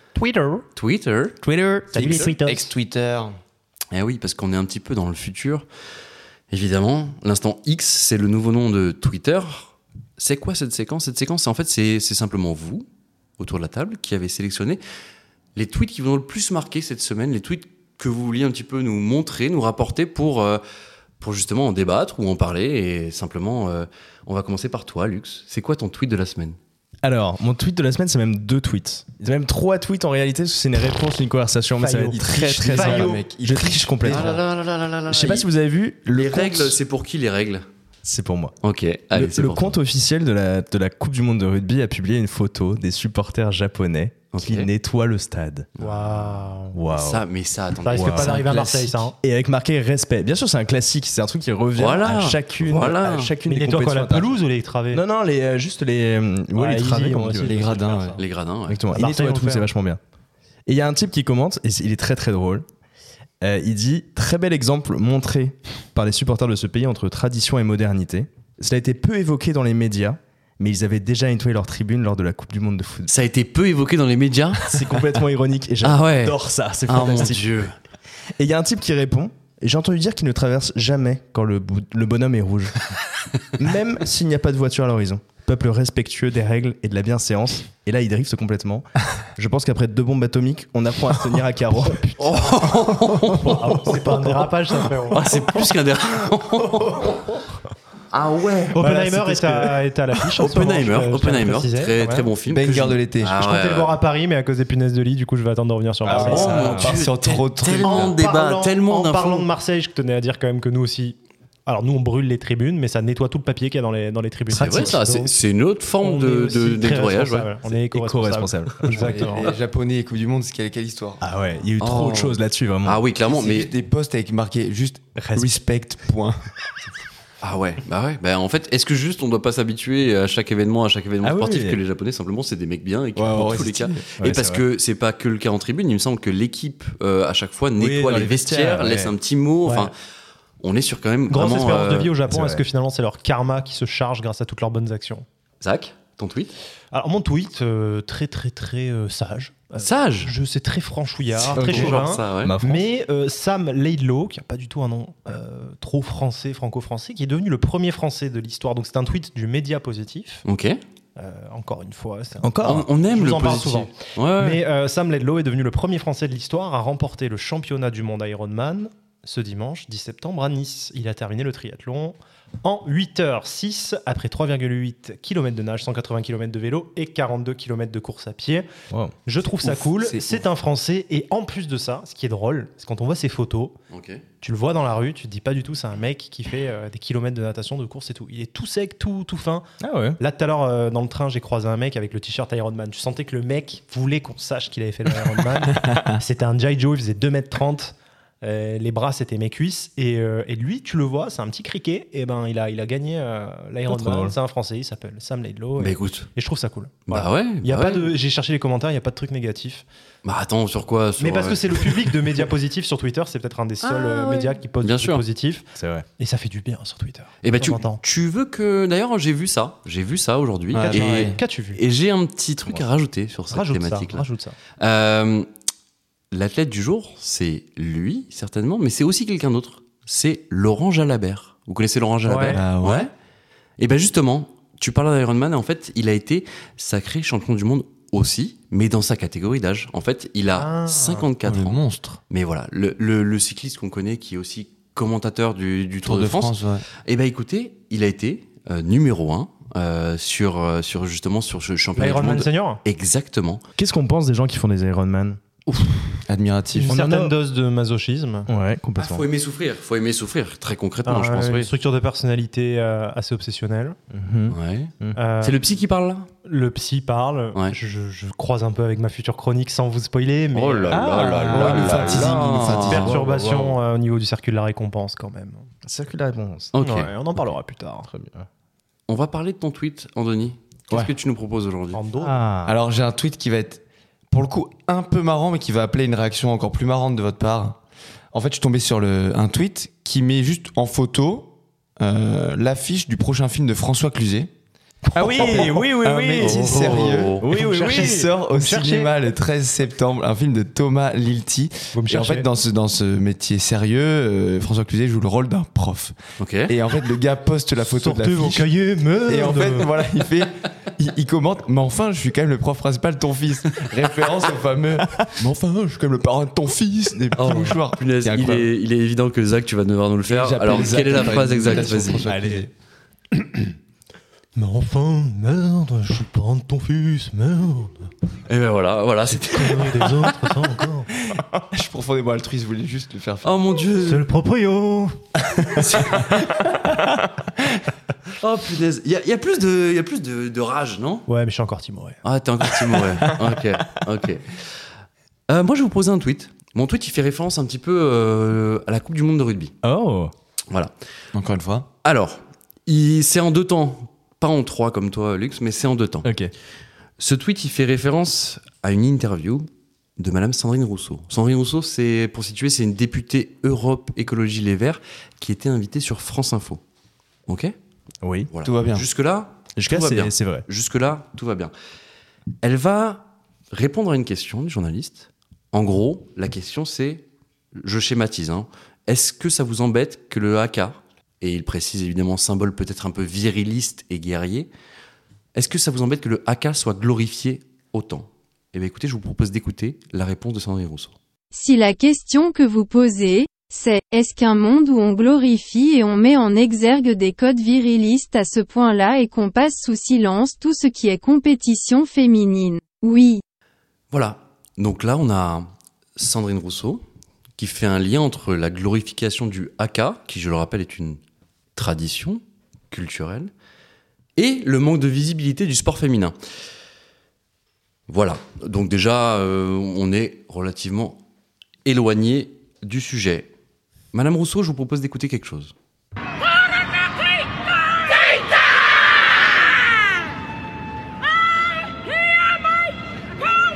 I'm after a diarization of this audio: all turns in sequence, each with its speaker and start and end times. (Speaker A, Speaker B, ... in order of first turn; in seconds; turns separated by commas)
Speaker A: 0.2-0.7, Speaker B: 0.8-1.4, Speaker A: 1.4-2.7, Speaker C: 1.9-3.3, Speaker B: 2.0-2.3, Speaker B: 3.9-5.7, Speaker B: 6.5-12.9, Speaker B: 13.4-14.8, Speaker B: 15.6-20.6, Speaker B: 21.2-26.6, Speaker D: 27.0-34.4, Speaker A: 31.8-33.1, Speaker C: 32.1-34.4, Speaker B: 34.1-35.5, Speaker D: 35.1-36.4, Speaker B: 36.1-37.6, Speaker C: 36.1-36.8, Speaker D: 38.0-38.5, Speaker B: 38.6-39.8, Speaker D: 39.1-45.7, Speaker B: 44.3-44.7, Speaker B: 45.8-49.0, Speaker A: 45.8-46.8, Speaker D: 46.7-47.2, Speaker A: 47.8-49.2, Speaker D: 47.9-48.4, Speaker D: 49.2-54.3, Speaker B: 51.8-53.3, Speaker A: 53.5-55.0, Speaker D: 54.9-57.7, Speaker A: 56.5-58.2, Speaker C: 57.5-58.2, Speaker B: 58.2-59.0, Speaker D: 58.7-60.0, Speaker A: 58.9-59.7, Speaker D: 60.7-62.7, Speaker D: 63.4-73.1, Speaker B: 73.1-75.1, Speaker D: 74.7-77.5, Speaker B: 75.8-77.7, Speaker D: 78.4-82.9, Speaker D: 83.6-92.2, Speaker A: 91.9-95.7, Speaker B: 92.2-94.4, Speaker B: 95.1-97.4, Speaker B: 98.1-98.9, Speaker A: 98.7-102.3, Speaker B: 100.4-103.9, Speaker C: 102.5-103.4, Speaker A: 103.4-106.9, Speaker B: 106.0-109.5, Speaker D: 106.1-106.9, Speaker C: 106.1-108.2, Speaker A: 107.8-115.4, Speaker B: 114.5-117.5, Speaker A: 116.0-119.5, Speaker D: 117.8-119.2, Speaker C: 118.9-121.2, Speaker D: 121.2-123.0, Speaker B: 121.8-123.7, Speaker C: 123.3-126.3, Speaker A: 125.2-125.5, Speaker B: 127.4-139.9, Speaker D: 131.2-131.8, Speaker D: 133.2-134.6, Speaker C: 133.3-133.8, Speaker D: 137.8-139.1, Speaker A: 139.6-139.9, Speaker B: 140.6-142.1, Speaker A: 141.3-145.2, Speaker D: 142.3-142.6, Speaker B: 145.6-146.5, Speaker A: 146.9-160.4, Speaker B: 149.8-150.3, Speaker B: 151.4-152.5, Speaker D: 151.5-152.8, Speaker B: 160.4-160.8, Speaker A: 161.2-178.7, Speaker D: 162.4-162.9, Speaker B: 162.6-164.6, Speaker D: 178.9-179.2, Speaker A: 179.3-183.8, Speaker C: 179.5-180.4, Speaker B: 183.9-184.2, Speaker A: 184.4-189.7, Speaker D: 189.8-190.2, Speaker A: 190.2-209.9, Speaker D: 203.9-204.3, Speaker B: 205.8-206.3, Speaker B: 207.1-208.1, Speaker B: 210.2-212.4, Speaker A: 211.2-218.0, Speaker E: 213.8-214.6, Speaker B: 214.8-215.2, Speaker D: 215.8-216.1, Speaker B: 217.4-224.2, Speaker C: 220.7-221.4, Speaker A: 220.8-221.8, Speaker A: 223.5-224.6, Speaker B: 224.8-225.5, Speaker B: 226.3-233.1, Speaker A: 232.2-232.6, Speaker C: 232.5-233.1, Speaker B: 233.8-253.6, Speaker A: 240.6-241.3, Speaker C: 241.4-242.2, Speaker C: 246.0-246.9, Speaker A: 252.0-252.8, Speaker D: 253.8-255.4, Speaker C: 256.3-257.0, Speaker A: 256.7-258.5, Speaker D: 256.9-257.3, Speaker D: 258.5-259.2, Speaker B: 259.0-261.7, Speaker A: 261.1-264.0, Speaker D: 264.1-265.2, Speaker B: 264.5-266.3, Speaker A: 265.2-265.6, Speaker A: 266.4-271.4, Speaker B: 270.5-273.1, Speaker D: 270.9-273.8, Speaker C: 271.5-273.2, Speaker A: 272.8-275.7, Speaker D: 275.9-276.8, Speaker B: 276.8-277.1, Speaker A: 276.8-278.1, Speaker D: 277.4-278.5, Speaker B: 279.1-282.0, Speaker A: 281.9-282.4, Speaker D: 282.2-282.7, Speaker C: 282.6-287.8, Speaker C: 288.3-294.5, Speaker D: 295.1-298.4, Speaker C: 295.2-306.1, Speaker B: 296.4-297.5, Speaker A: 298.5-299.1, Speaker A: 301.9-302.4, Speaker B: 306.4-306.7, Speaker C: 306.7-308.7, Speaker A: 307.9-309.9, Speaker C: 309.2-318.7, Speaker B: 317.4-322.2, Speaker C: 320.3-322.7, Speaker D: 322.2-322.7, Speaker A: 323.4-323.7, Speaker A: 324.6-328.1, Speaker B: 328.5-330.3, Speaker A: 329.3-331.1, Speaker C: 331.3-333.5, Speaker B: 333.4-334.3, Speaker A: 334.0-335.2, Speaker B: 335.7-336.4, Speaker C: 335.7-337.6, Speaker B: 338.4-341.3, Speaker A: 341.3-342.2, Speaker B: 342.2-344.6, Speaker D: 342.9-343.6, Speaker B: 345.5-349.7, Speaker D: 349.8-350.3, Speaker C: 351.3-351.9, Speaker B: 352.0-356.3, Speaker D: 356.2-356.5, Speaker B: 357.2-359.6, Speaker B: 360.2-366.8, Speaker B: 367.5-367.8, Speaker D: 368.2-368.5, Speaker B: 368.5-371.7, Speaker C: 368.6-369.1, Speaker D: 369.8-370.6, Speaker B: 372.6-384.7, Speaker B: 385.6-391.1, Speaker E: 391.5-403.4, Speaker B: 404.1-407.0, Speaker B: 407.6-411.2, Speaker B: 411.8-413.5, Speaker B: 414.4-416.4, Speaker B: 418.1-421.2, Speaker B: 421.9-423.5, Speaker B: 424.1-425.7